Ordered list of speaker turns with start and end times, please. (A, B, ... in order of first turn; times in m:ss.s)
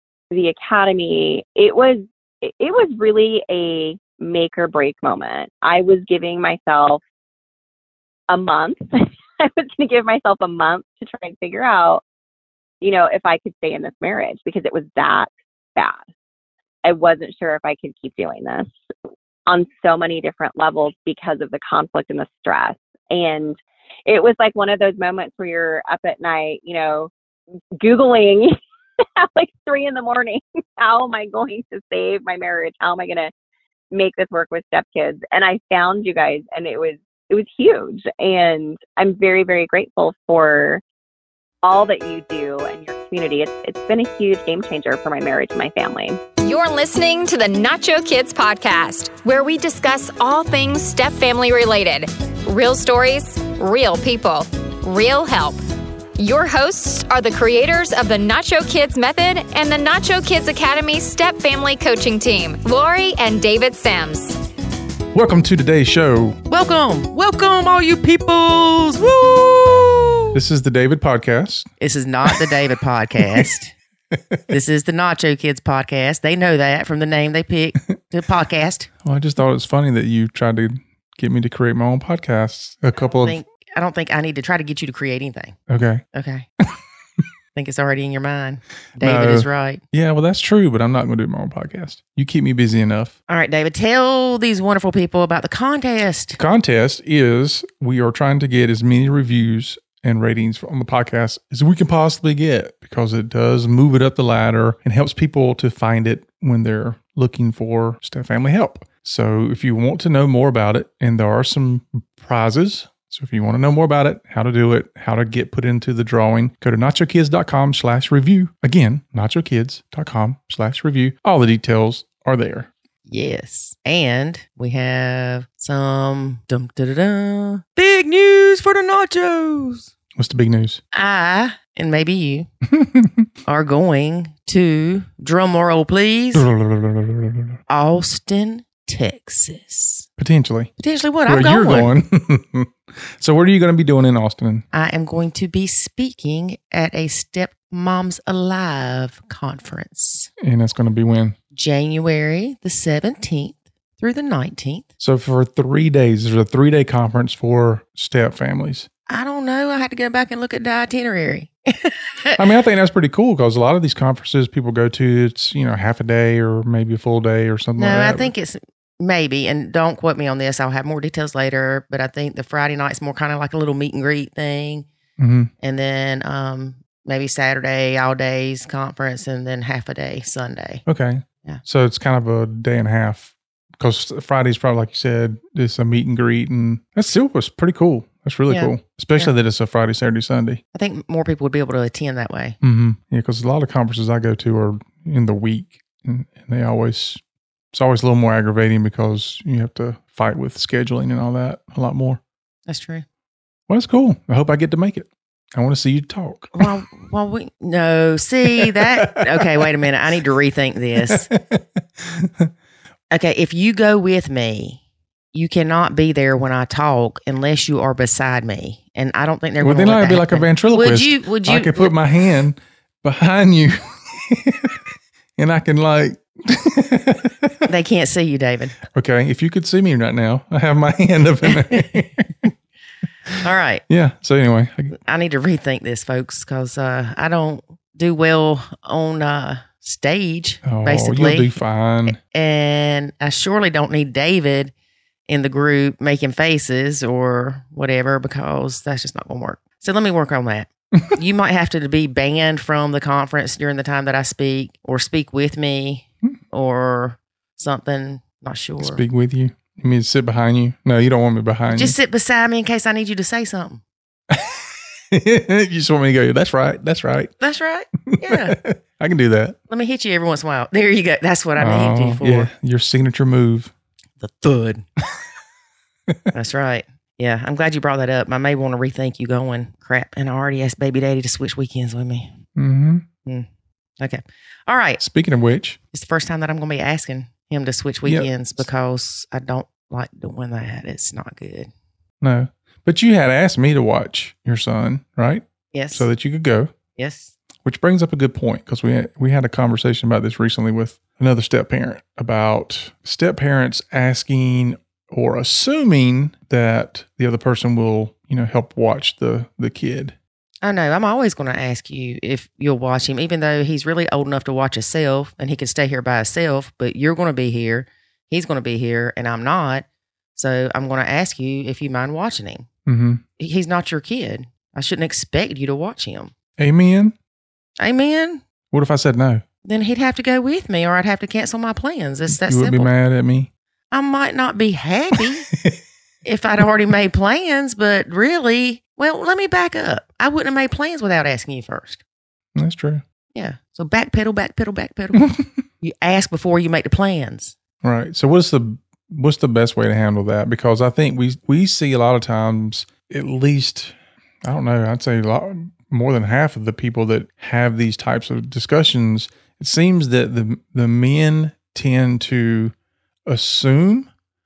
0:00.3-0:07.0 A
0:08.3-0:12.0 A
0:12.8-0:16.0 A
0:16.8-0:18.7 A
0:19.4-0:27.1 A
0:27.8-0:33.3 A
0:33.9-0:40.8 A
0:41.6-0:46.2 A
0:46.4-0:55.6 B
0:56.2-1:04.4 B
1:05.1-1:06.4 C
1:06.5-1:10.4 D
1:10.3-1:11.7 C
1:11.8-1:13.7 D
1:12.2-1:12.5 C
1:14.1-1:14.4 C
1:14.5-1:18.9 D
1:19.0-1:23.4 C
1:23.2-1:25.6 D
1:25.7-1:26.0 C
1:26.1-1:26.5 D
1:27.5-1:29.8 D
1:29.0-1:33.1 C
1:33.3-1:36.4 D
1:36.3-2:02.7 C
2:03.1-2:09.9 D
2:10.1-2:10.8 C
2:10.9-2:12.5 D
2:12.7-2:13.2 C
2:13.4-2:16.5 D
2:16.3-2:17.6 C
2:17.7-2:20.1 D
2:20.2-2:20.7 C
2:20.8-2:21.9 D
2:21.2-2:24.6 C
2:24.7-2:30.3 D
2:30.4-2:31.4 C
2:31.5-2:34.9 D
2:35.0-2:38.9 C
2:39.1-2:42.4 D
2:42.4-2:48.3 C
2:47.8-2:54.9 D
2:55.2-2:55.5 C
2:55.6-3:00.8 D
3:00.9-3:10.6 C
3:08.5-3:09.3 D
3:10.7-3:12.6 D
3:12.6-3:17.2 C
3:17.7-3:22.2 C
3:22.6-3:23.0 D
3:23.7-3:26.7 C
3:26.5-3:31.3 D
3:28.6-3:29.0 C
3:31.0-3:32.5 C
3:33.1-3:34.8 D
3:35.3-3:41.9 D
3:39.6-3:47.5 C
3:47.7-3:48.8 D
3:48.9-3:52.5 C
3:53.4-3:53.8 D
3:53.9-3:55.0 C
3:55.0-4:01.6 D
4:00.6-4:02.2 C
4:02.1-4:04.7 D
4:05.3-4:19.0 D
4:18.8-4:21.9 C
4:21.7-4:23.8 D
4:24.3-4:27.3 C
4:27.4-4:28.6 D
4:28.1-4:29.6 C
4:29.7-4:32.5 D
4:31.6-4:33.7 C
4:34.2-4:34.8 D
4:36.3-4:42.3 D
4:42.6-4:43.0 C
4:44.0-4:45.0 D
4:45.0-4:45.8 C
4:45.9-4:51.7 D
4:52.2-4:56.7 C
4:55.7-4:56.1 D
4:57.0-4:57.3 D
4:57.6-5:10.1 C
5:10.6-5:22.7 D
5:22.9-5:23.2 C
5:23.4-5:26.3 D
5:26.6-5:27.1 C
5:27.8-5:28.4 D
5:28.7-5:29.4 C
5:29.6-5:32.9 D
5:32.3-5:33.5 C
5:33.9-5:35.5 D
5:36.2-5:42.0 D
5:42.6-5:43.0 C
5:43.3-5:47.5 D
5:45.2-5:45.5 C
5:47.8-6:02.7 C
6:03.3-6:04.1 C